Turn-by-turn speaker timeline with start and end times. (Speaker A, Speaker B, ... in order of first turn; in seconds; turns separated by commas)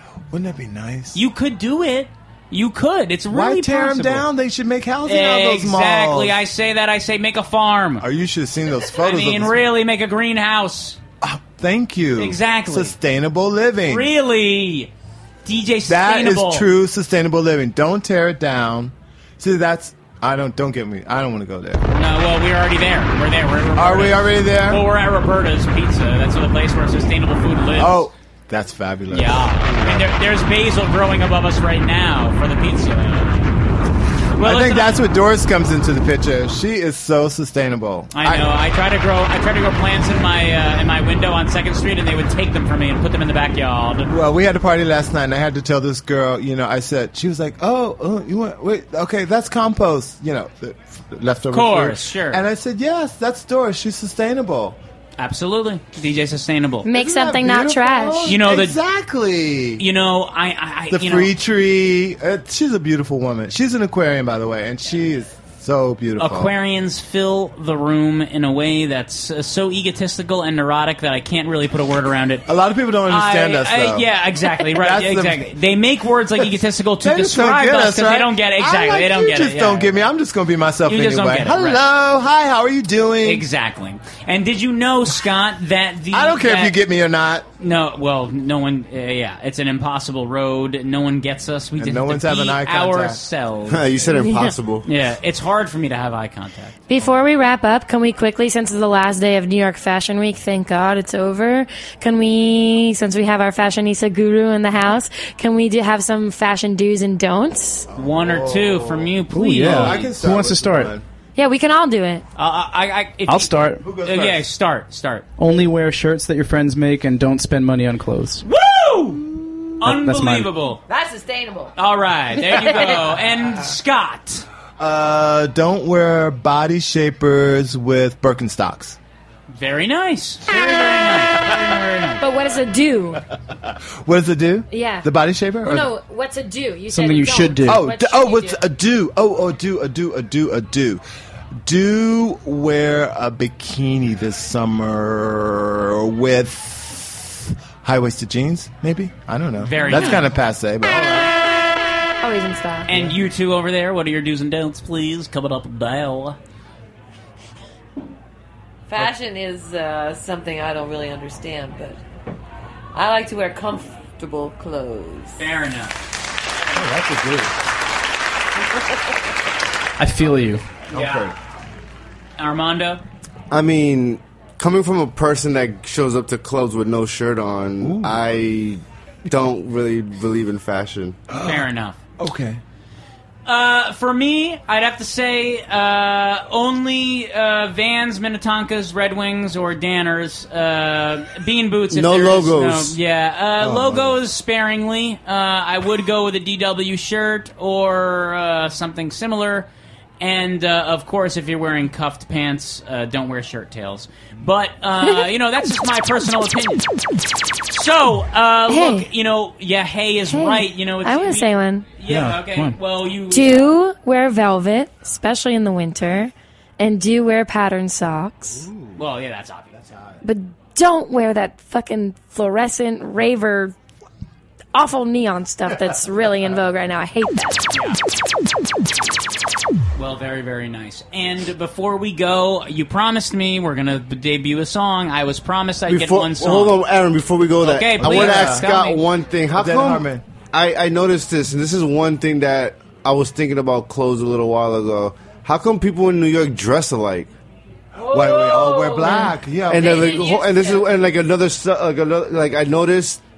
Speaker A: 0.3-1.2, Speaker B: 1.1-4.3, Speaker A: 3.3-6.4, Speaker B: 5.0-8.0, Speaker A: 8.0-9.6, Speaker B: 8.9-11.0, Speaker A: 11.2-14.1, Speaker B: 12.2-12.9, Speaker B: 13.9-14.9, Speaker B: 15.4-16.7, Speaker A: 15.9-21.9, Speaker B: 21.9-28.1, Speaker A: 23.8-24.8, Speaker A: 27.7-30.1, Speaker B: 29.1-33.5, Speaker B: 34.4-34.9, Speaker A: 34.4-38.5, Speaker B: 38.1-44.1, Speaker A: 44.1-54.8, Speaker B: 51.5-52.4, Speaker B: 55.2-56.9, Speaker C: 56.8-58.4, Speaker A: 56.9-59.8, Speaker B: 58.2-58.8, Speaker B: 59.8-61.3, Speaker A: 60.9-66.5, Speaker B: 66.2-72.4, Speaker A: 72.5-74.1, Speaker B: 73.1-80.0, Speaker A: 74.6-75.4, Speaker A: 77.0-83.4, Speaker B: 80.9-81.8, Speaker B: 83.2-86.8, Speaker A: 86.1-87.5, Speaker B: 87.6-94.2, Speaker A: 91.8-93.2, Speaker D: 93.7-94.8, Speaker B: 94.8-96.8, Speaker C: 96.9-107.9, Speaker A: 107.9-111.0, Speaker B: 108.0-110.1, Speaker E: 109.3-110.9, Speaker C: 111.4-112.2, Speaker B: 112.3-115.3, Speaker E: 113.3-113.8, Speaker A: 113.8-114.5, Speaker E: 115.4-118.4, Speaker B: 118.4-119.2, Speaker B: 119.8-120.8, Speaker E: 119.8-120.5, Speaker F: 120.9-121.7, Speaker B: 121.8-124.4, Speaker A: 124.8-129.0, Speaker B: 129.5-132.2, Speaker C: 132.2-133.2, Speaker A: 134.0-135.9, Speaker C: 134.7-135.1, Speaker C: 135.6-138.6, Speaker E: 136.9-137.9, Speaker A: 137.6-141.0, Speaker A: 141.6-151.2, Speaker B: 149.6-150.3, Speaker B: 150.9-151.3, Speaker C: 152.2-152.9, Speaker B: 152.9-156.4, Speaker F: 158.9-162.0, Speaker F: 162.9-165.4, Speaker B: 165.4-166.0, Speaker A: 166.8-167.5, Speaker E: 170.0-170.6, Speaker B: 170.9-171.3, Speaker A: 170.9-171.3, Speaker B: 172.4-173.0, Speaker D: 173.5-181.2, Speaker A: 177.8-178.3, Speaker A: 181.3-181.7, Speaker B: 181.4-182.0, Speaker A: 182.2-182.6, Speaker B: 183.4-199.7, Speaker D: 191.9-192.9, Speaker A: 193.6-194.2, Speaker B: 200.2-206.8, Speaker B: 207.7-213.7, Speaker C: 208.7-209.1, Speaker C: 210.3-211.8, Speaker E: 212.1-212.8, Speaker C: 213.3-218.7, Speaker A: 218.5-219.0, Speaker B: 218.9-219.7, Speaker A: 219.7-220.2, Speaker C: 220.2-223.7, Speaker C: 224.7-227.6, Speaker B: 227.7-228.0, Speaker B: 229.9-236.8, Speaker D: 235.9-247.3, Speaker B: 237.6-239.1, Speaker A: 238.0-238.7, Speaker A: 239.5-240.2, Speaker A: 248.0-250.2, Speaker F: 248.1-249.2, Speaker C: 249.0-249.3, Speaker D: 249.7-253.2, Speaker F: 249.8-250.8